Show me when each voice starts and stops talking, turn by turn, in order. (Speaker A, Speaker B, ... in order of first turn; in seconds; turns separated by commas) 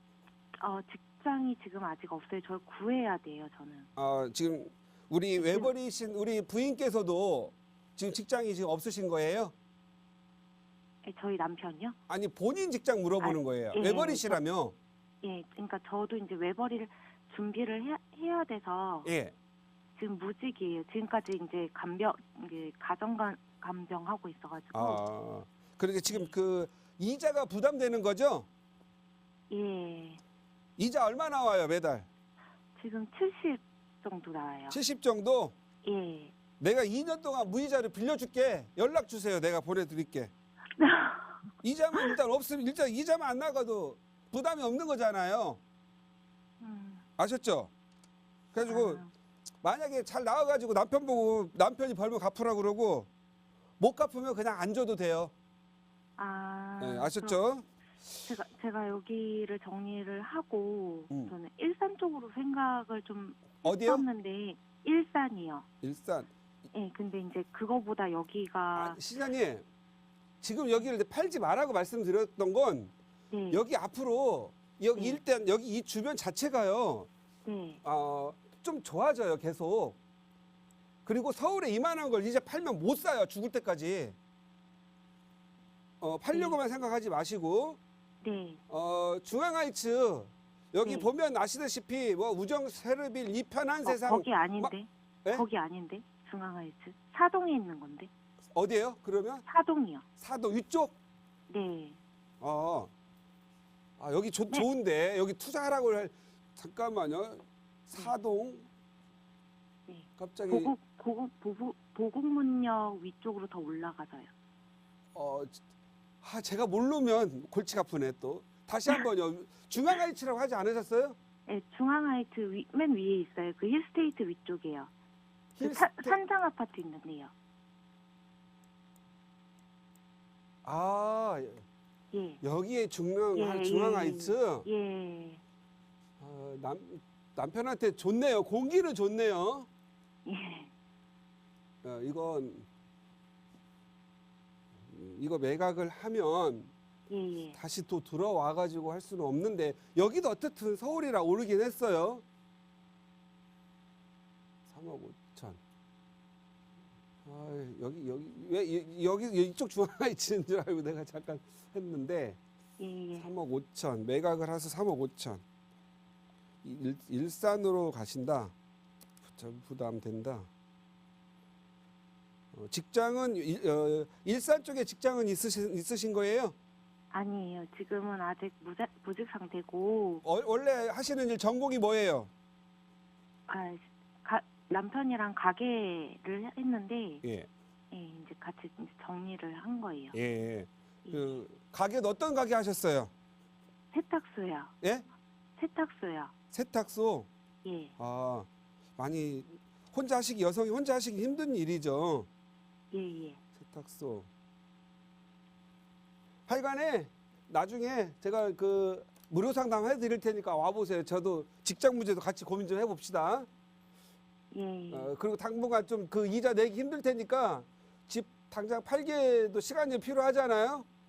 Speaker A: 0.6-3.9, Speaker B: 4.0-9.5, Speaker A: 5.3-5.7, Speaker A: 11.0-11.9, Speaker B: 12.1-14.7, Speaker A: 13.2-14.4, Speaker A: 15.2-19.1, Speaker B: 19.1-19.3, Speaker A: 19.9-25.0, Speaker B: 24.7-28.5, Speaker A: 29.5-30.2, Speaker B: 30.8-32.1, Speaker A: 32.8-34.8, Speaker B: 34.7-35.5, Speaker A: 35.8-36.3, Speaker B: 36.6-40.3, Speaker A: 40.8-41.4, Speaker B: 41.6-45.6, Speaker A: 46.6-47.0, Speaker B: 47.2-47.7, Speaker B: 48.5-49.0, Speaker A: 48.6-49.1, Speaker B: 49.6-53.1, Speaker B: 53.8-55.3, Speaker A: 56.1-57.4, Speaker B: 56.8-57.6, Speaker A: 58.2-65.7, Speaker B: 63.6-64.0, Speaker B: 65.8-66.3, Speaker A: 66.7-69.0, Speaker B: 68.7-69.6, Speaker B: 70.4-72.9, Speaker A: 73.3-73.6, Speaker B: 73.5-77.1, Speaker A: 74.9-75.2, Speaker A: 77.4-77.8, Speaker B: 77.8-80.0, Speaker B: 81.0-84.2, Speaker B: 86.0-87.8, Speaker A: 86.3-86.6, Speaker A: 88.2-88.6, Speaker B: 88.7-94.7, Speaker A: 90.8-91.1, Speaker A: 93.8-98.1, Speaker B: 98.5-99.4, Speaker A: 99.4-100.0, Speaker B: 100.2-100.9, Speaker A: 101.5-102.0, Speaker B: 102.4-102.9, Speaker B: 104.0-108.7, Speaker A: 109.9-114.3, Speaker B: 110.2-110.7, Speaker B: 115.1-115.6, Speaker B: 116.2-121.2, Speaker A: 121.5-124.9, Speaker B: 125.5-126.2, Speaker A: 125.6-127.3, Speaker B: 130.6-131.6, Speaker A: 132.1-132.4, Speaker B: 132.4-134.7, Speaker A: 133.3-135.4, Speaker B: 136.2-139.7, Speaker A: 140.2-140.7, Speaker B: 141.8-142.7, Speaker B: 144.9-146.7, Speaker A: 147.1-147.6, Speaker B: 147.5-152.2, Speaker B: 154.7-155.6, Speaker B: 157.2-162.4, Speaker A: 162.8-163.3, Speaker B: 163.2-165.4, Speaker B: 166.6-168.5, Speaker B: 169.3-170.5, Speaker B: 172.5-176.5, Speaker A: 177.1-180.2, Speaker B: 180.2-182.3, Speaker A: 183.5-187.2, Speaker B: 187.2-187.5, Speaker A: 187.9-190.2, Speaker B: 190.1-193.1, Speaker A: 191.0-191.4, Speaker A: 193.9-194.7, Speaker A: 195.6-196.3, Speaker B: 196.5-197.3, Speaker A: 197.6-197.9, Speaker B: 198.0-198.5, Speaker B: 199.0-202.3, Speaker A: 202.9-203.4, Speaker B: 203.6-204.3, Speaker B: 206.5-213.5, Speaker A: 214.5-215.1, Speaker B: 214.9-220.8